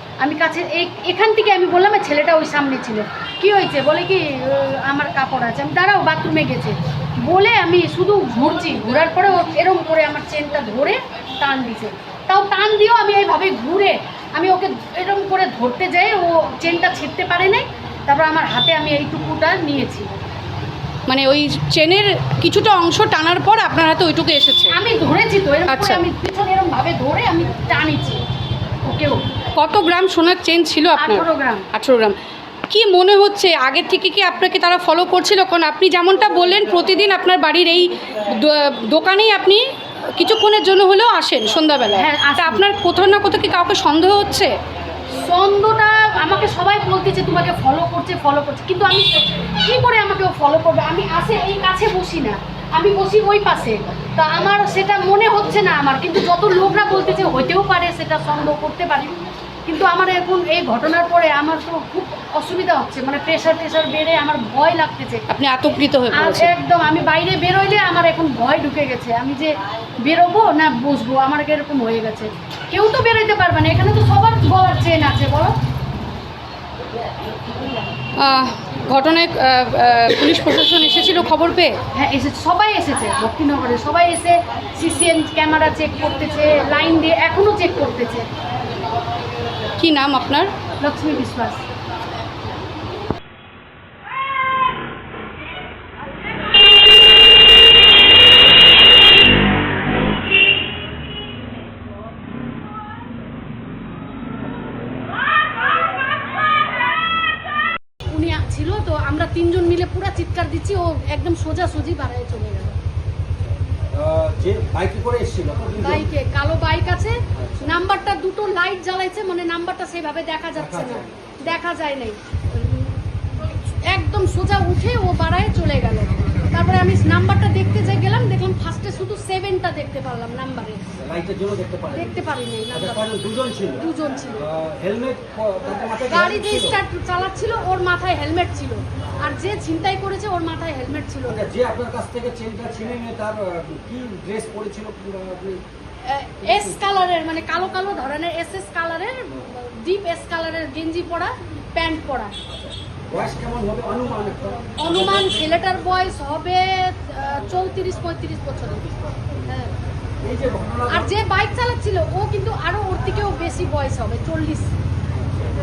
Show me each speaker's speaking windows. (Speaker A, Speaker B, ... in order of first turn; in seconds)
Speaker A: 0.2-20.1, 24.7-28.2, 28.9-29.2, 31.0-31.7, 41.9-42.6, 45.2-65.2, 66.1-75.5, 81.9-88.3, 90.8-91.6, 108.1-112.8, 115.8-123.0, 123.7-130.8, 131.9-133.1, 133.8-134.5, 136.1-141.5, 146.0-152.3, 154.8-159.7, 160.9-164.7
Speaker B: 21.1-24.8, 25.7-26.0, 29.6-32.2, 32.7-39.6, 40.1-44.5, 65.3-66.5, 78.2-81.8, 89.8-90.5
Speaker C: 113.9-116.1, 117.3-117.6, 120.6-121.4, 130.9-136.8, 141.3-145.6, 152.7-155.5, 160.2-161.3